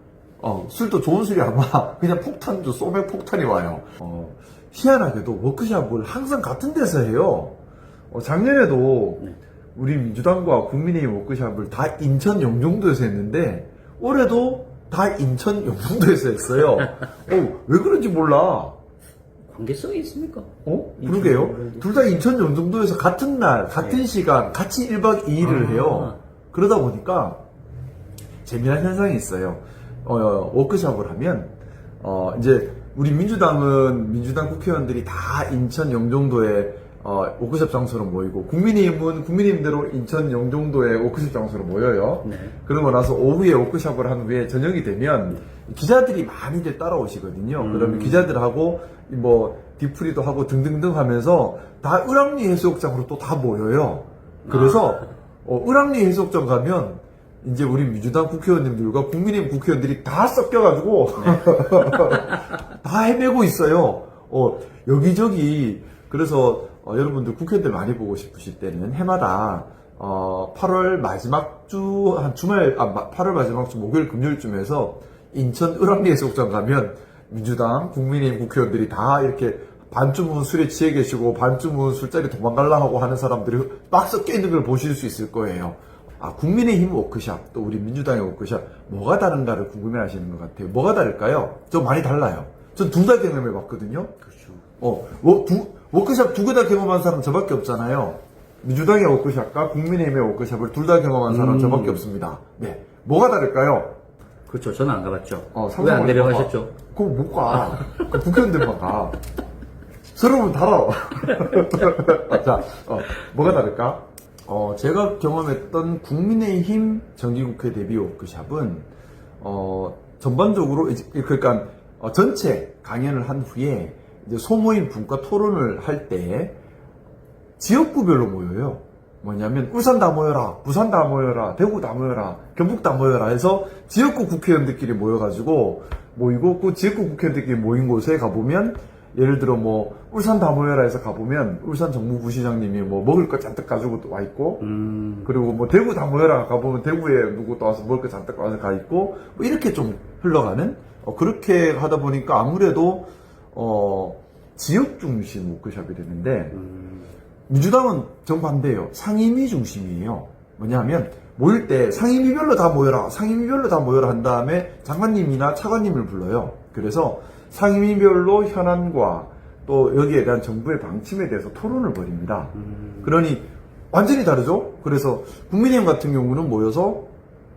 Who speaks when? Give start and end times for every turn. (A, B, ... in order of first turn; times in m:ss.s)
0:00.4-0:07.6 A
0:08.1-0:18.8 A
0:19.5-0:20.5 B
0:20.6-0:27.4 A
0:21.0-0:22.0 B
0:25.4-0:26.2 B
0:28.4-1:34.1 A
0:42.2-0:42.6 B
0:47.6-0:48.3 B
0:54.4-0:55.0 B
1:01.2-1:02.2 B
1:34.2-1:34.6 B
1:34.8-1:44.0 A
1:41.3-1:42.0 B
1:44.5-1:46.7 B
1:45.5-1:49.2 A
1:50.1-1:58.9 A
1:59.4-2:06.6 A
2:07.6-2:24.6 A
2:24.6-2:25.3 B
2:25.2-2:36.6 A
2:36.5-2:37.1 B
2:37.5-2:57.1 A
2:52.5-2:53.1 B